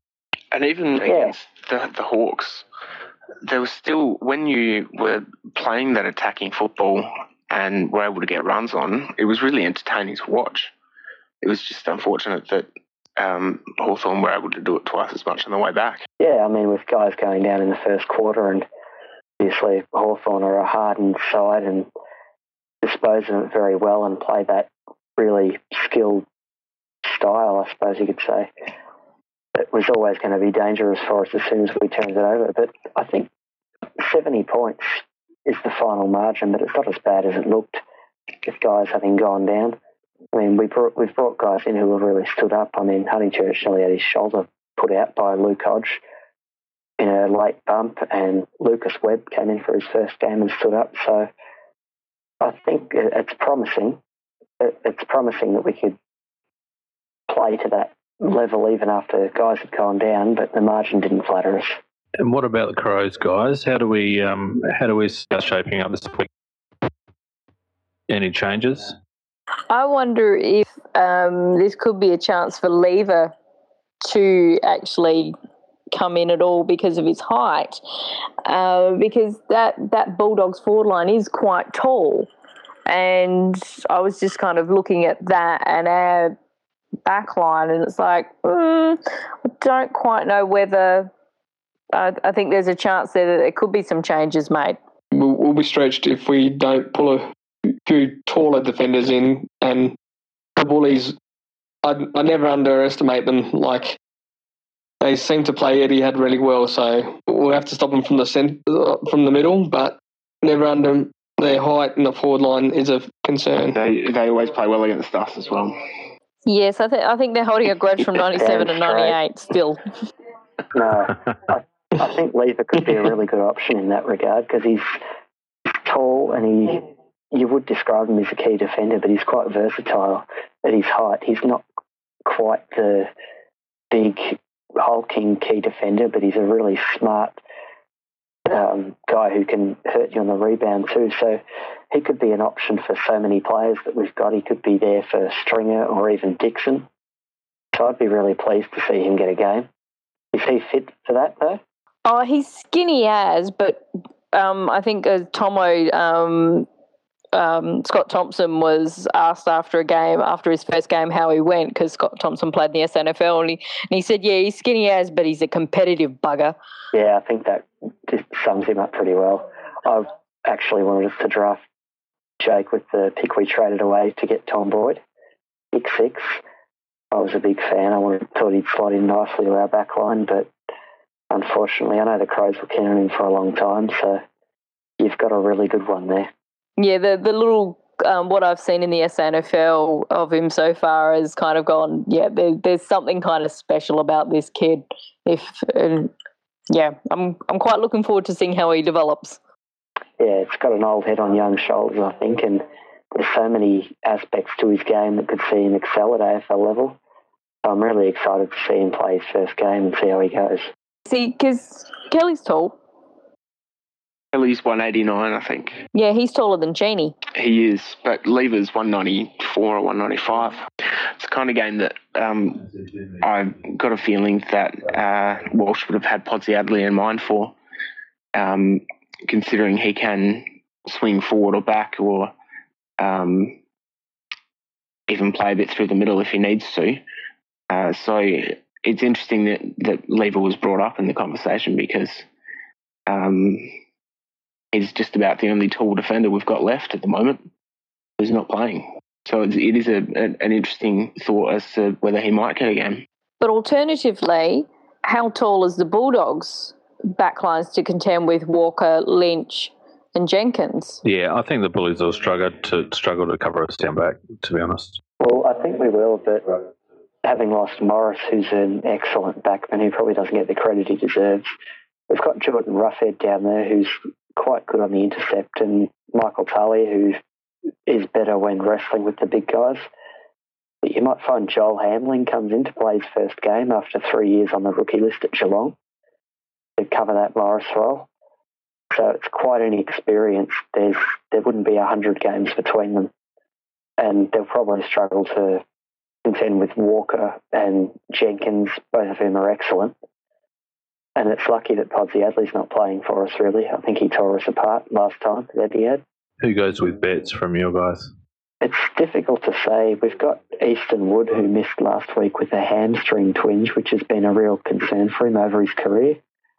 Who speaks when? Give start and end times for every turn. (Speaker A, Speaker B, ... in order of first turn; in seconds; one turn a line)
Speaker A: 0.5-2.6
Speaker B: 1.1-1.3
Speaker A: 3.4-10.7
Speaker A: 11.4-16.1
Speaker B: 16.2-18.7
Speaker B: 19.4-21.9
Speaker B: 22.8-26.2
Speaker B: 27.0-28.5
Speaker B: 29.5-33.3
Speaker B: 34.0-37.8
Speaker B: 38.4-39.8
Speaker B: 40.3-46.0
Speaker B: 47.0-51.3
Speaker B: 52.4-54.0
Speaker B: 54.6-56.0
Speaker B: 57.3-61.8
Speaker C: 62.2-66.3
Speaker C: 68.1-69.0
Speaker D: 69.7-73.3
Speaker D: 74.0-75.3
Speaker D: 75.9-77.8
Speaker D: 78.4-82.3
Speaker D: 82.9-86.3
Speaker D: 87.0-91.1
Speaker D: 91.9-94.8
Speaker E: 95.1-97.3
Speaker E: 97.8-100.0
Speaker E: 100.6-101.2
Speaker E: 101.8-104.0
Speaker E: 105.0-113.8
Speaker A: 113.7-115.8
Speaker D: 116.5-119.8
Speaker B: 118.4-119.2
Speaker B: 120.7-124.9
Speaker B: 125.8-131.6
Speaker B: 132.2-133.1
Speaker B: 133.9-137.4
Speaker B: 138.4-146.9
Speaker B: 147.7-149.7
Speaker B: 150.3-151.6
Speaker D: 152.1-156.7
Speaker D: 157.3-166.6
Speaker B: 166.9-171.6
Speaker B: 172.4-175.0
Speaker B: 175.7-176.4
Speaker B: 177.1-180.5
Speaker B: 181.3-184.2
Speaker B: 185.0-186.3
Speaker D: 186.8-196.1
Speaker D: 196.7-199.4
Speaker B: 200.2-207.0
Speaker B: 207.6-210.6
Speaker D: 211.1-212.8
Speaker A: 214.3-215.8
Speaker D: 215.9-217.1
Speaker A: 217.3-220.6
Speaker A: 221.2-222.7
Speaker A: 223.2-227.5
Speaker A: 228.3-232.3
Speaker A: 233.0-233.6
Speaker A: 235.1-237.0
Speaker A: 237.7-242.3
Speaker A: 243.1-243.7
Speaker A: 244.7-247.5
Speaker A: 248.2-253.0
Speaker D: 253.4-261.0
Speaker C: 261.0-265.0
Speaker B: 265.2-266.7
Speaker B: 267.2-271.5
Speaker B: 272.1-277.2
Speaker B: 277.9-279.9
Speaker B: 280.8-285.8
Speaker B: 286.8-288.1
Speaker B: 288.9-293.1
Speaker B: 294.0-295.6
Speaker B: 296.2-299.9
Speaker B: 301.1-306.0
Speaker C: 306.4-308.1
Speaker B: 308.6-316.2